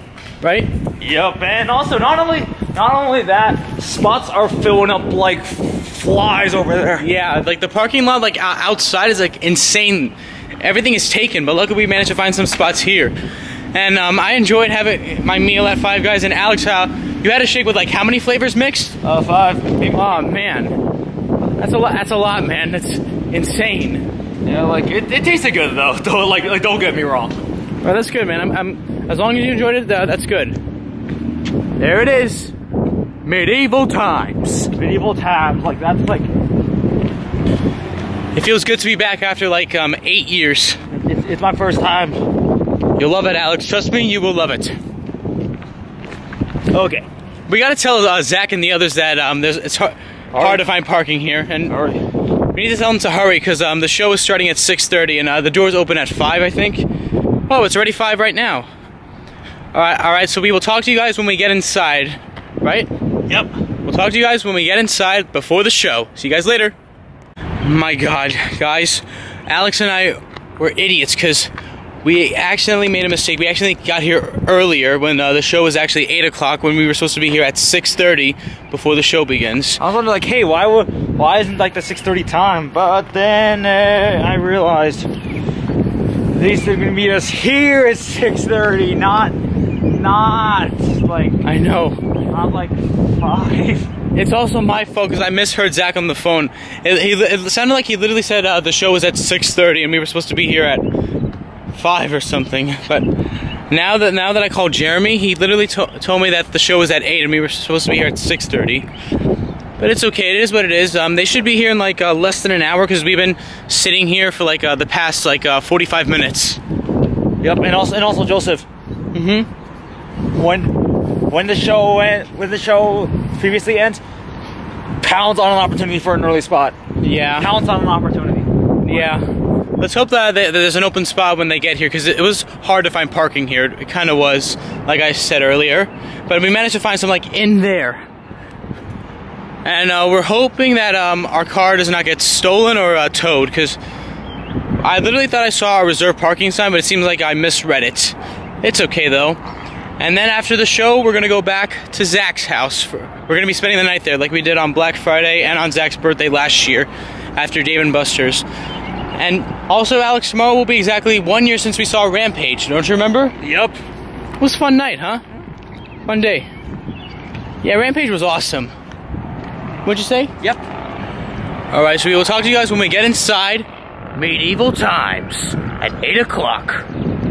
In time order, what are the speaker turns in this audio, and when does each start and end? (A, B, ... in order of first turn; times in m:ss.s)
0:00.4-0:00.7 A
0:01.0-0:07.1 B
0:07.0-0:13.2 A
0:13.7-0:19.0 A
0:19.0-0:20.2 B
0:19.9-0:20.8 A
0:21.6-0:24.1 A
0:24.4-0:27.4 B
0:27.8-0:30.6 A
0:31.8-0:32.5 A
0:33.2-0:34.7 A
0:34.8-0:36.3 B
0:38.3-0:40.8 A
0:40.9-0:42.2 B
0:43.0-0:44.8 A
0:46.7-0:47.1 B
0:47.5-0:51.8 A
0:50.3-0:50.6 B
0:51.7-0:52.0 B
0:52.5-0:56.9 A
0:57.5-0:58.7 A
0:59.7-1:02.9 A
1:03.3-1:03.5 B
1:03.8-1:06.8 A
1:07.6-1:11.5 A
1:12.0-1:19.8 A
1:19.8-1:25.1 B
1:26.3-1:31.4 B
1:31.4-1:32.0 A
1:32.3-1:33.9 B
1:34.2-1:40.9 A
1:41.7-1:43.1 A
1:43.7-1:48.9 A
1:49.8-1:56.6 A
1:57.4-1:58.7 B
1:59.1-1:59.5 A
2:00.3-2:04.0 B
2:05.0-2:06.8 B
2:07.0-2:07.5 A
2:07.4-2:09.2 B
2:08.8-2:09.3 A
2:09.8-2:18.0 A
2:19.6-2:23.8 A
2:24.8-2:29.4 A
2:30.0-2:38.4 A
2:39.2-2:43.4 A
2:43.4-2:43.8 B
2:44.4-2:45.2 A
2:46.1-2:46.5 A
2:47.6-2:48.7 A
2:49.8-2:50.3 A
2:51.7-2:56.9 A